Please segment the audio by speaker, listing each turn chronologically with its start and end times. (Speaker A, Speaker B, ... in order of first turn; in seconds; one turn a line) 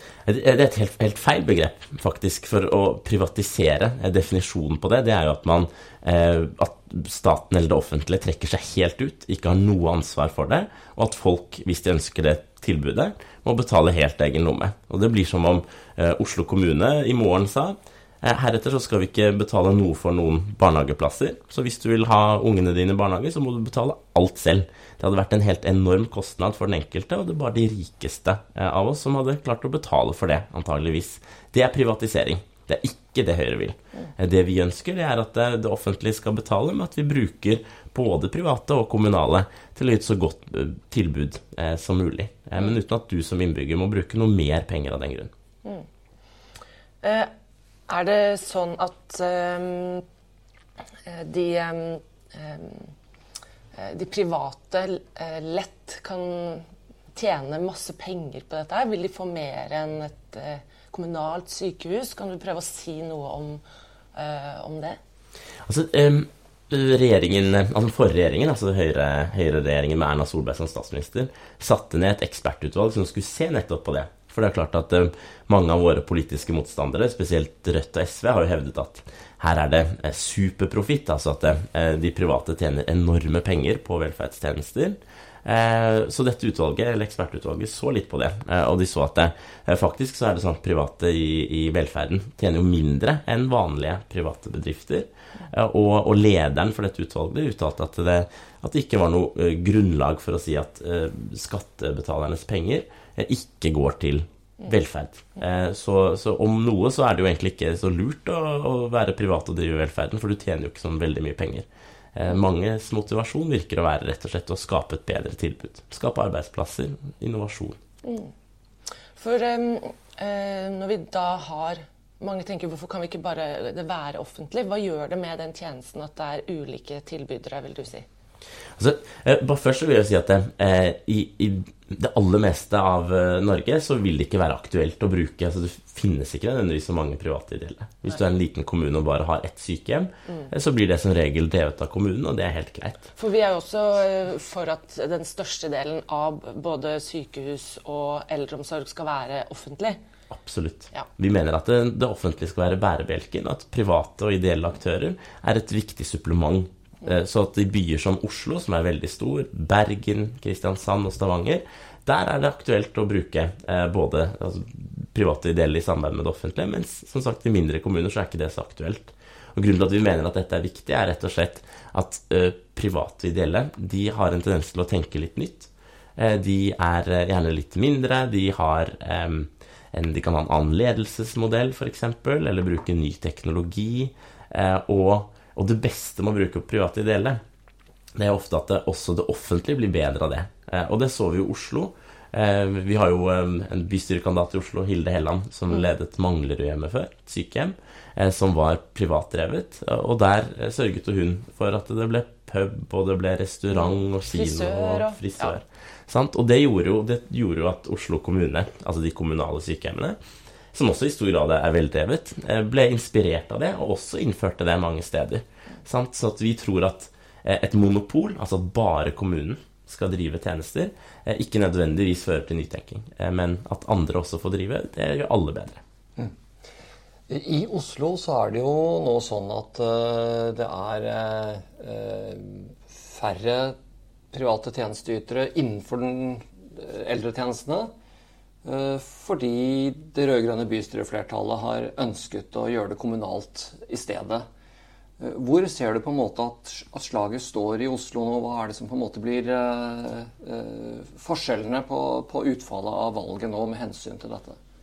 Speaker A: 0.3-45.3
Speaker B: 47.0-47.3
Speaker B: 47.9-50.0
Speaker B: 51.1-52.9
Speaker B: 53.8-63.6
Speaker B: 64.1-65.0
Speaker A: 65.7-117.8
Speaker B: 118.0-118.3
Speaker B: 119.2-128.1
Speaker A: 128.8-143.1
Speaker B: 143.2-150.0
Speaker A: 150.3-187.4
Speaker A: 188.2-210.2
Speaker B: 203.7-205.6
Speaker A: 210.7-225.8
Speaker C: 227.3-233.8
Speaker C: 234.3-237.9
Speaker C: 238.7-244.4
Speaker C: 245.2-254.6